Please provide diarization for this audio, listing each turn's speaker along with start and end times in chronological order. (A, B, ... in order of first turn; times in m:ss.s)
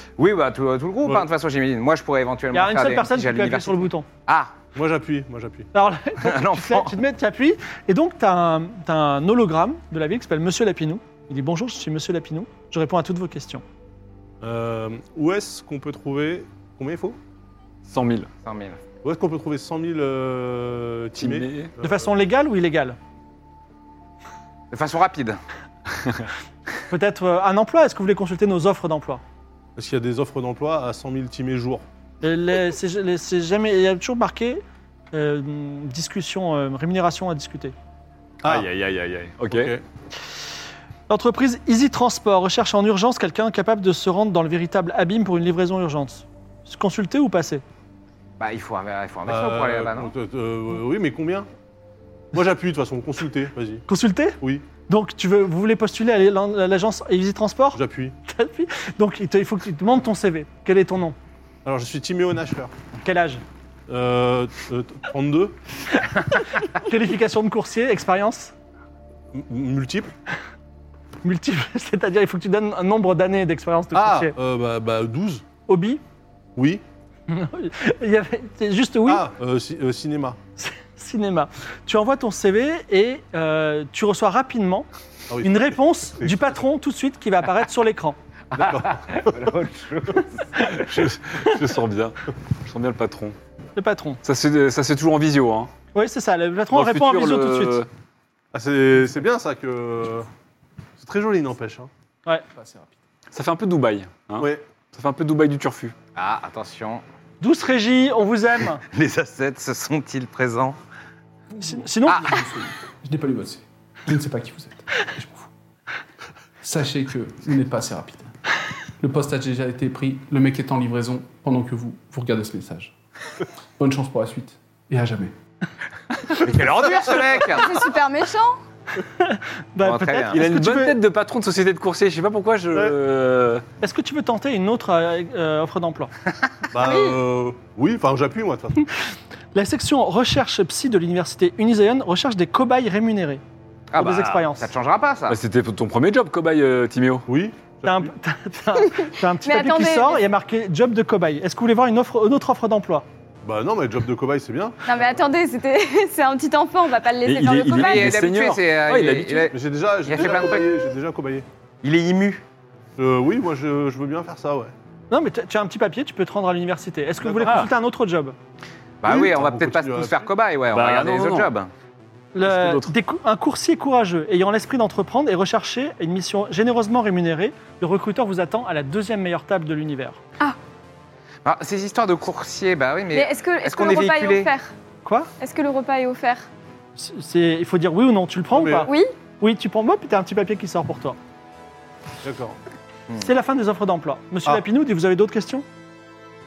0:00.2-0:04.6 A
0:02.5-0:04.1 B
0:04.7-0:05.7 C
0:05.7-0:13.6 B
0:06.2-0:06.9 A
0:14.4-0:17.2 C
0:17.8-0:18.3 D
0:18.4-0:18.8 A
0:19.0-0:22.1 C
0:21.2-0:21.7 D
0:21.8-0:23.0 B
0:24.7-0:25.4 A
0:26.0-0:26.2 D
0:26.9-0:29.2 B
0:29.8-0:31.8 C
0:32.2-0:37.7 B
0:38.4-0:38.7 C
0:38.4-0:39.7 D
0:39.5-0:39.8 C
0:41.1-0:47.6 B
0:48.4-0:50.1 A
0:49.3-0:51.5 C
0:52.3-0:53.8 C
0:53.9-1:01.2 B
0:54.4-0:54.7 C
0:57.7-0:58.1 C
1:01.6-1:02.7 C
1:03.0-1:03.4 B
1:03.9-1:05.6 C
1:06.0-1:08.5 B
1:09.3-1:10.1 C
1:11.2-1:14.3 B
1:13.9-1:15.4 C
1:15.6-1:16.0 B
1:16.6-1:16.8 C
1:17.3-1:19.3 B
1:19.0-1:20.4 C
1:20.6-1:24.9 B
1:25.3-1:26.4 C
1:25.4-1:28.2 B
1:28.5-1:30.7 A
1:28.6-1:29.0 C
1:30.8-1:33.4 D
1:33.8-1:34.2 B
1:34.2-1:35.7 D
1:35.9-1:37.8 B
1:36.7-1:37.9 D
1:38.5-1:40.3 C
1:41.0-1:41.9 C
1:42.5-1:42.9 E
1:43.3-1:45.9 D
1:44.4-1:44.6 C
1:46.1-1:47.0 A
1:47.4-1:48.8 B
1:48.9-1:50.8 A
1:51.6-1:55.5 E
1:51.6-1:52.4 B
1:52.1-1:52.4 A
1:56.6-1:58.3 E
1:59.0-2:02.9 E
2:03.8-2:05.3 E
2:06.4-2:07.8 A
2:07.5-2:08.6 F
2:09.0-2:11.0 B
2:09.8-2:10.4 A
2:10.3-2:13.6 D
2:13.8-2:16.1 B
2:16.7-2:18.8 C
2:16.8-2:17.2 F
2:19.5-2:23.4 B
2:23.9-2:25.4 A
2:24.0-2:24.7 B
2:25.3-2:27.2 D
2:27.3-2:28.1 C
2:27.8-2:33.0 B
2:28.9-2:30.2 F
2:33.4-2:34.8 C
2:34.8-2:38.1 F
2:37.2-2:39.5 D
2:37.6-2:40.8 A
2:39.5-2:41.4 C
2:41.8-2:42.4 A
2:43.0-2:44.7 C
2:45.1-2:48.4 B
2:47.2-2:47.6 C
2:47.4-2:47.7 D
2:49.0-2:51.7 A
2:49.0-2:50.3 C
2:50.7-2:51.5 D
2:52.3-3:00.2 B
2:52.4-2:52.9 D
3:01.4-3:04.5 A
3:03.1-3:04.7 F
3:05.0-3:05.3 B
3:05.4-3:06.4 F
3:07.0-3:11.2 B
3:08.5-3:08.9 C
3:08.8-3:09.1 F
3:12.2-3:12.6 C
3:13.2-3:15.6 B